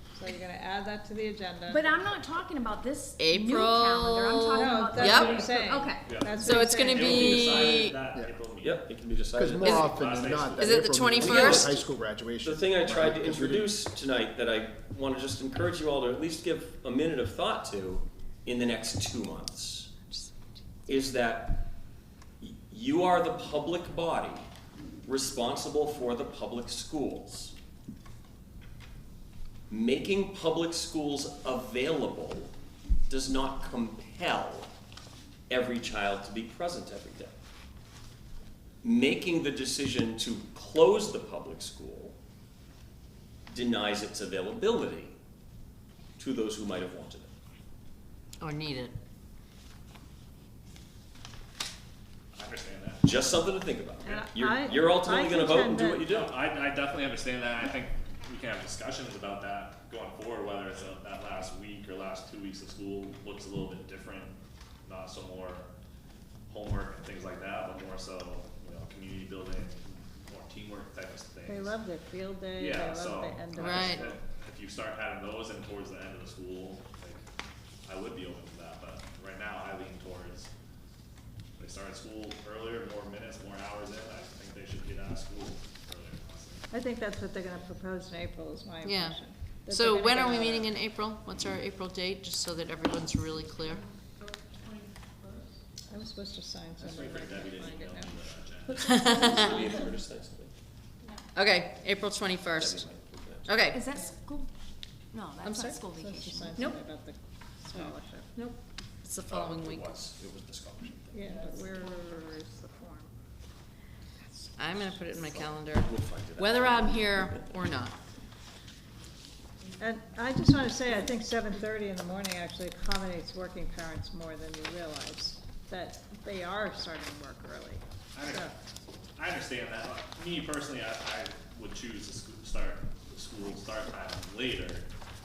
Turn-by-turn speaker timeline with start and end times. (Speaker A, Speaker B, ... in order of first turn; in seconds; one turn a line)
Speaker A: 0.1-2.2
Speaker B: 1.6-6.0
Speaker C: 3.2-5.4
Speaker A: 4.5-7.7
Speaker D: 5.2-5.5
Speaker D: 6.0-8.9
Speaker C: 6.4-8.0
Speaker E: 7.2-8.3
Speaker F: 8.6-10.0
Speaker E: 9.3-13.7
Speaker C: 9.6-9.9
Speaker D: 10.0-10.8
Speaker C: 10.6-11.9
Speaker F: 11.2-11.8
Speaker F: 12.4-19.9
Speaker F: 20.9-21.7
Speaker F: 22.4-24.4
Speaker F: 25.1-27.6
Speaker F: 29.7-32.5
Speaker F: 33.1-34.7
Speaker F: 35.5-37.3
Speaker F: 38.8-42.2
Speaker F: 43.5-45.2
Speaker F: 46.2-47.3
Speaker C: 48.4-49.0
Speaker D: 52.3-53.1
Speaker F: 53.0-56.3
Speaker A: 54.0-56.1
Speaker D: 56.1-65.7
Speaker D: 66.5-71.8
Speaker A: 71.5-74.2
Speaker D: 72.5-77.2
Speaker C: 73.5-73.9
Speaker D: 77.8-80.5
Speaker D: 81.6-86.7
Speaker A: 86.7-90.7
Speaker C: 88.8-93.8
Speaker A: 95.9-98.1
Speaker D: 96.8-99.4
Speaker C: 98.8-99.3
Speaker F: 98.9-100.5
Speaker C: 101.3-102.9
Speaker F: 102.6-103.5
Speaker C: 103.5-103.8
Speaker B: 103.7-104.5
Speaker B: 105.1-106.8
Speaker C: 105.4-105.8
Speaker A: 105.9-108.3
Speaker C: 108.3-109.9
Speaker F: 109.3-111.4
Speaker A: 111.1-113.1
Speaker A: 114.2-114.8
Speaker C: 114.6-118.0
Speaker F: 115.2-117.4
Speaker A: 119.8-128.5
Speaker D: 128.1-128.5
Speaker D: 129.2-134.9